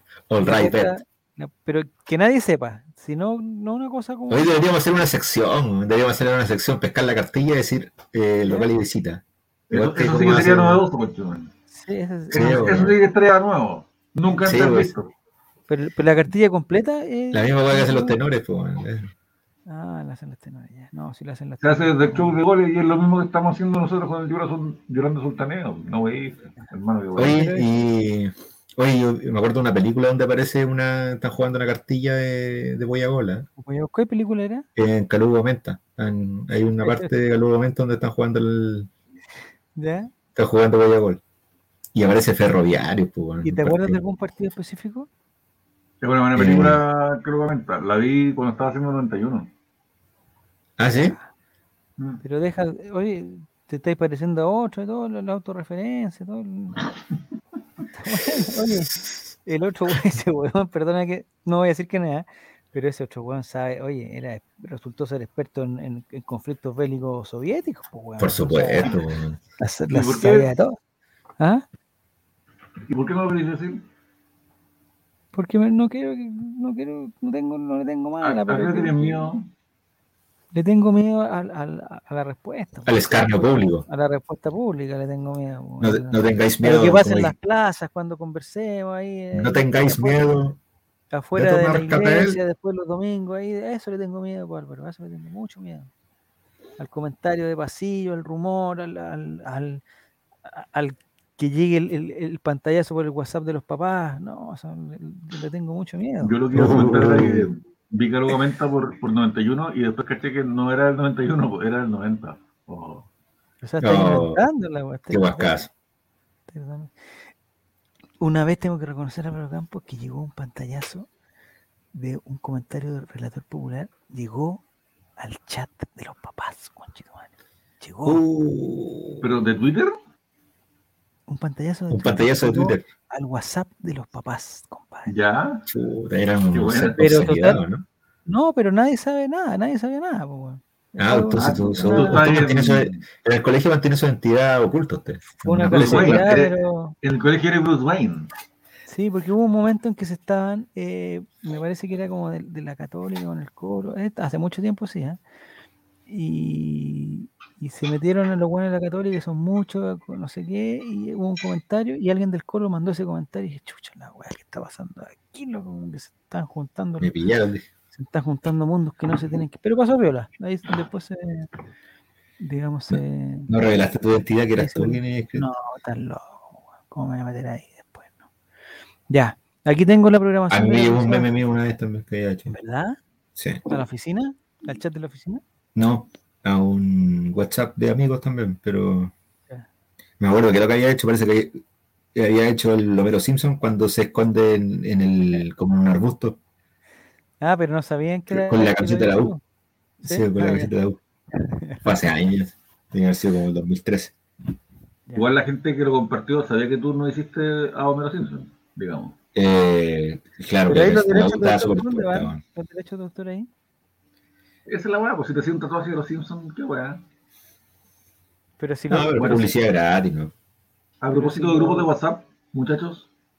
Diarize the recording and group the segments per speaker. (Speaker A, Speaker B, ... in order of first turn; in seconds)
Speaker A: 0.3-0.9, 4.3-10.8, 12.3-13.0, 14.4-14.9, 17.3-19.1, 27.2-33.5, 34.8-38.9, 40.4-41.2, 41.9-44.0, 46.3-46.8, 50.8-51.2, 68.2-69.4, 82.9-83.9, 85.8-87.3, 89.3-90.6, 91.3-92.4, 106.5-107.5, 113.8-114.4, 115.1-115.7, 128.1-129.3, 131.9-132.9, 135.7-137.8, 141.0-146.4, 167.0-167.7, 172.9-175.5, 180.5-182.5, 183.4-183.7, 185.8-189.1, 190.2-191.6, 192.2-196.4, 198.3-199.3, 200.0-201.0, 201.8-204.2, 209.3-212.4, 218.9-220.3
Speaker B: 0.4-4.5, 11.7-12.9, 15.7-18.2, 19.7-22.4, 33.6-34.7, 36.8-37.1, 39.8-40.1, 43.4-45.1, 51.0-51.3, 52.2-56.9, 57.9-69.0, 69.6-70.8, 71.4-71.7, 75.3-79.3, 80.5-83.3, 83.8-90.5, 91.1-95.9, 96.8-99.8, 100.5-106.4, 113.6-115.7, 116.5-116.9, 118.2-121.1, 121.9-124.6, 125.2-128.2, 131.3-135.1, 137.0-137.6, 138.3-142.6, 145.4-146.9, 148.9-155.2, 156.1-167.1, 167.9-171.5, 172.4-173.5, 174.6-178.2, 179.1-181.3, 182.5-183.0, 183.7-185.4, 197.4-199.4, 200.0-200.7, 201.3-202.0, 210.7-213.5, 218.6-219.5, 221.1-221.9
Speaker C: 9.7-11.5, 12.3-15.1, 21.6-27.6, 46.0-49.5, 69.9-70.5, 72.9-73.8, 78.2-79.5, 106.2-113.1, 129.2-130.0, 135.1-135.6, 136.5-137.1, 141.3-143.0, 145.7-146.5, 147.0-148.3, 205.2-209.2, 214.7-217.0, 219.1-219.5, 221.0-223.1